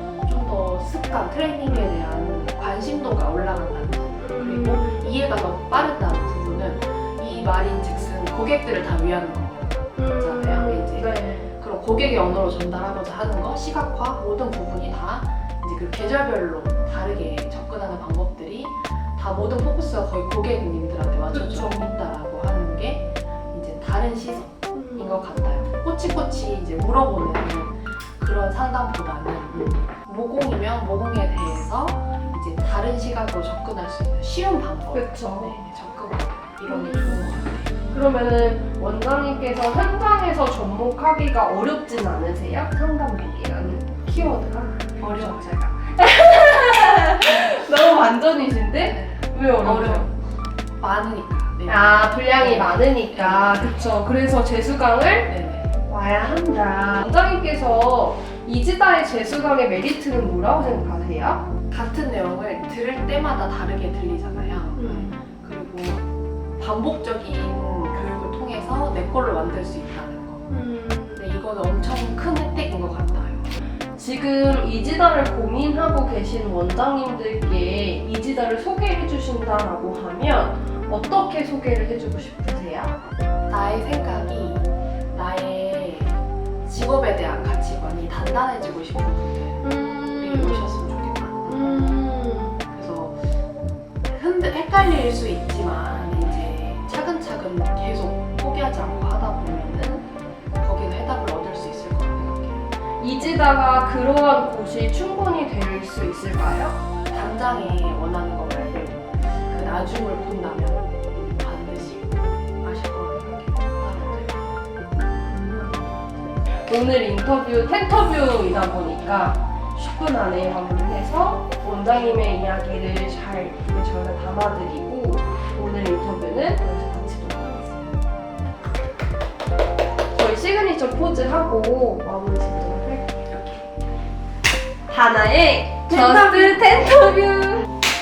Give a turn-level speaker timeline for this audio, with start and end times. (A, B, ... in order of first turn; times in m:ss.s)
0:00.2-0:37.7 A
0:04.2-0:05.0 B
0:10.0-0:11.5 B
0:21.3-0:21.9 B
0:34.9-0:35.6 B
0:36.7-0:37.2 B
0:37.9-0:50.1 B
0:45.0-0:45.5 A
0:48.8-0:50.2 A
0:50.8-0:53.8 A
0:51.7-0:55.3 B
0:55.3-0:55.7 A
0:55.9-1:01.5 B
1:01.7-1:10.5 A
1:10.5-1:11.1 B
1:11.2-1:13.6 A
1:14.0-1:23.0 B
1:23.5-1:33.3 A
1:29.6-1:30.8 B
1:31.5-1:32.6 B
1:34.1-1:42.7 A
1:43.0-1:46.8 B
1:47.1-1:54.4 A
1:55.3-1:56.0 B
1:56.7-2:07.8 B
2:10.1-2:13.3 B
2:13.3-2:13.6 A
2:14.9-2:17.7 B